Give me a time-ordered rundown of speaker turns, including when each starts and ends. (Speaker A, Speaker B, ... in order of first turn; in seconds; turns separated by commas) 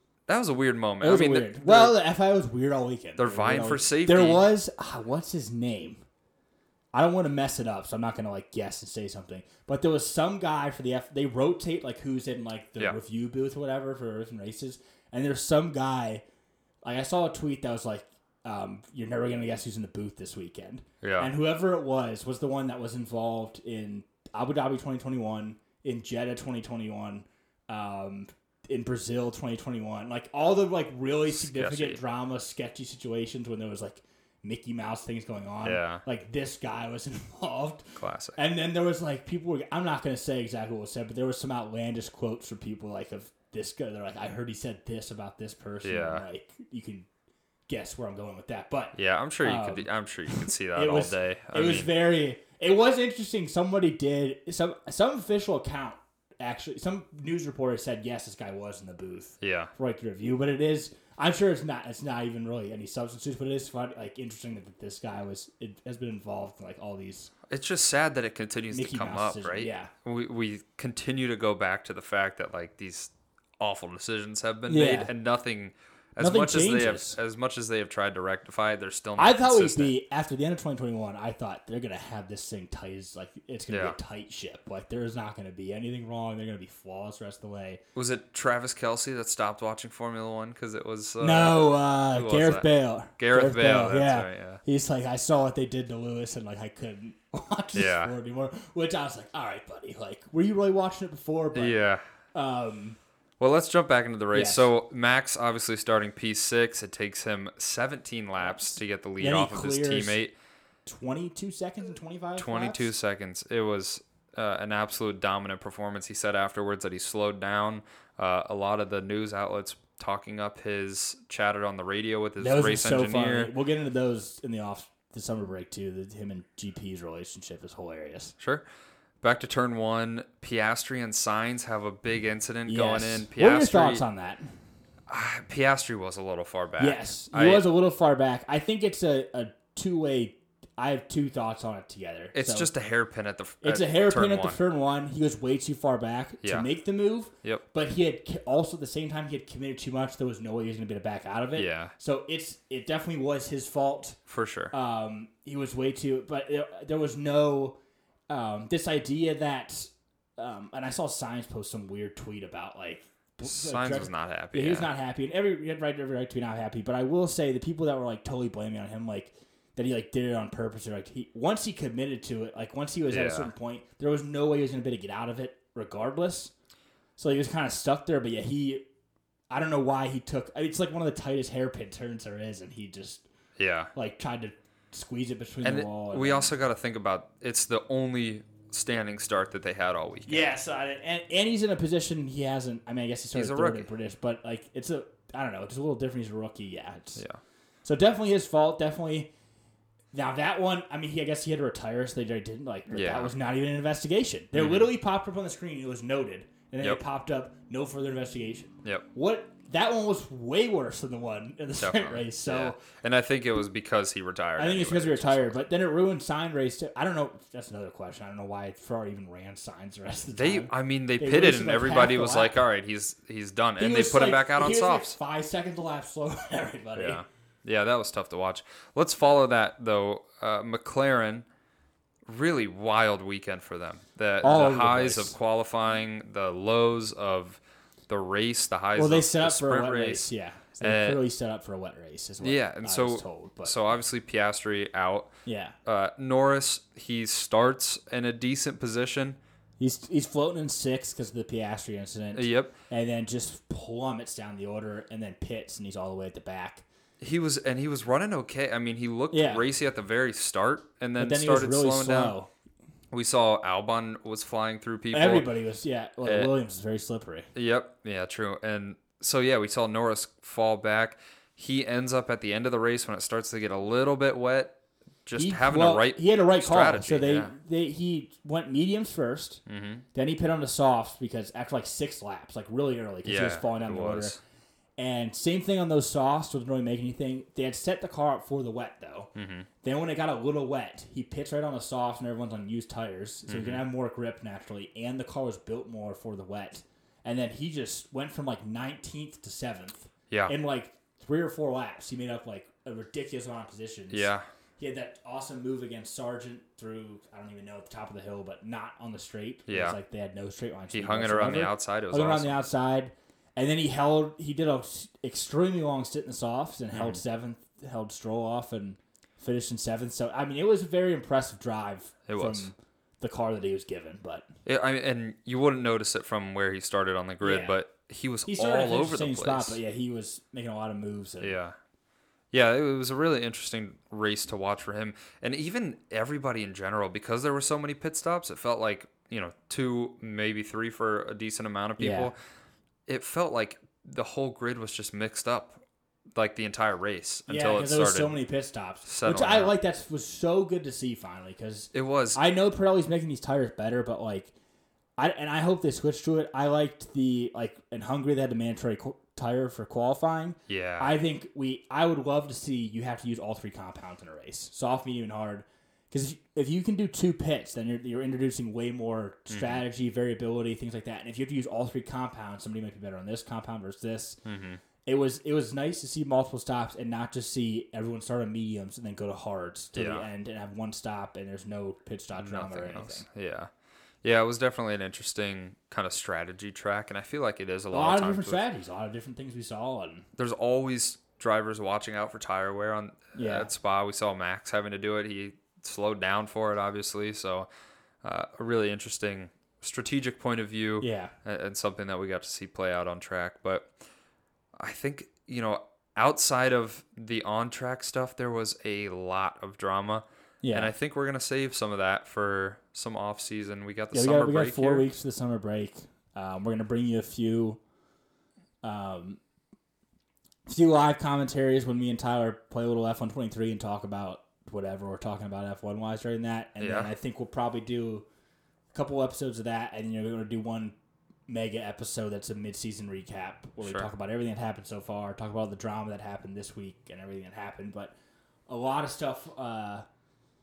Speaker A: 0.3-1.9, Speaker B: 1.0-6.0, Speaker A: 3.2-4.5, Speaker B: 6.9-16.2, Speaker B: 16.8-47.1, Speaker A: 21.0-21.3, Speaker A: 31.3-32.0, Speaker A: 35.6-36.0, Speaker A: 38.0-38.4, Speaker A: 45.8-46.2, Speaker B: 47.7-67.3, Speaker A: 48.9-51.9, Speaker A: 59.4-59.7, Speaker A: 67.5-79.9, Speaker B: 68.7-69.9, Speaker B: 74.7-75.1, Speaker B: 76.2-77.2, Speaker B: 79.2-87.8, Speaker A: 83.7-84.0, Speaker A: 87.9-94.6, Speaker B: 91.2-101.8, Speaker A: 97.7-98.1, Speaker A: 101.5-102.0, Speaker B: 102.3-103.0, Speaker A: 103.4-110.3, Speaker B: 104.3-104.7, Speaker B: 109.2-110.2, Speaker B: 110.8-112.9, Speaker A: 112.4-123.5, Speaker B: 122.4-128.3, Speaker A: 128.4-128.6, Speaker A: 129.2-134.0, Speaker B: 132.7-134.5, Speaker A: 135.1-137.7, Speaker B: 136.8-142.7, Speaker A: 142.3-144.6, Speaker B: 143.6-154.2, Speaker A: 146.4-146.7, Speaker A: 151.5-151.9, Speaker A: 154.3-154.7, Speaker B: 154.7-157.8, Speaker B: 158.3-176.5, Speaker A: 163.4-164.9, Speaker A: 173.1-173.5, Speaker B: 177.2-178.8, Speaker B: 179.5-183.2, Speaker A: 183.6-183.9, Speaker B: 183.9-186.5, Speaker A: 185.6-190.4, Speaker B: 190.3-197.2, Speaker A: 193.3-193.9, Speaker A: 197.2-197.4, Speaker B: 197.8-199.3, Speaker B: 200.1-212.8, Speaker A: 202.9-203.3, Speaker A: 204.5-204.9, Speaker A: 211.8-215.6, Speaker B: 214.6-222.6, Speaker A: 220.3-225.2, Speaker B: 223.8-227.2, Speaker A: 226.9-231.4, Speaker A: 232.3-241.2, Speaker B: 234.4-235.3, Speaker B: 238.9-243.8, Speaker A: 242.4-249.4, Speaker B: 245.4-245.8, Speaker B: 249.8-256.8, Speaker A: 252.3-252.7, Speaker A: 257.2-262.4, Speaker B: 259.3-259.6, Speaker B: 261.2-262.5, Speaker A: 263.1-265.5, Speaker B: 265.1-267.5, Speaker A: 266.2-266.5, Speaker A: 267.5-277.5, Speaker B: 275.4-279.6, Speaker A: 279.7-280.0, Speaker B: 280.1-284.4, Speaker A: 283.2-284.4, Speaker B: 285.0-289.3, Speaker A: 289.4-289.7, Speaker B: 289.8-324.5, Speaker A: 293.5-293.8, Speaker A: 304.1-304.4, Speaker A: 309.7-310.0, Speaker A: 310.9-312.6, Speaker A: 316.9-317.2, Speaker A: 322.3-322.7, Speaker A: 324.6-329.8, Speaker B: 327.4-327.8, Speaker B: 328.5-331.6, Speaker A: 331.4-331.8, Speaker A: 332.5-342.4, Speaker B: 342.0-342.3, Speaker A: 343.1-345.8, Speaker A: 346.4-348.4, Speaker B: 347.5-354.5, Speaker A: 349.1-349.7, Speaker A: 351.9-352.4, Speaker B: 355.2-374.4, Speaker A: 360.7-361.1, Speaker A: 369.5-369.8, Speaker A: 374.4-374.8, Speaker B: 375.0-383.2, Speaker A: 379.9-380.3, Speaker A: 382.3-383.7, Speaker A: 384.2-388.6, Speaker B: 387.9-390.2, Speaker A: 390.4-397.7, Speaker B: 393.3-393.7, Speaker A: 398.2-403.9, Speaker B: 401.0-401.3, Speaker A: 404.8-415.1, Speaker B: 410.6-410.9, Speaker B: 414.1-417.8, Speaker B: 418.8-419.4, Speaker B: 420.6-428.2, Speaker A: 426.8-427.1, Speaker B: 428.9-430.9, Speaker B: 431.5-438.1, Speaker A: 433.8-434.1, Speaker B: 438.7-440.0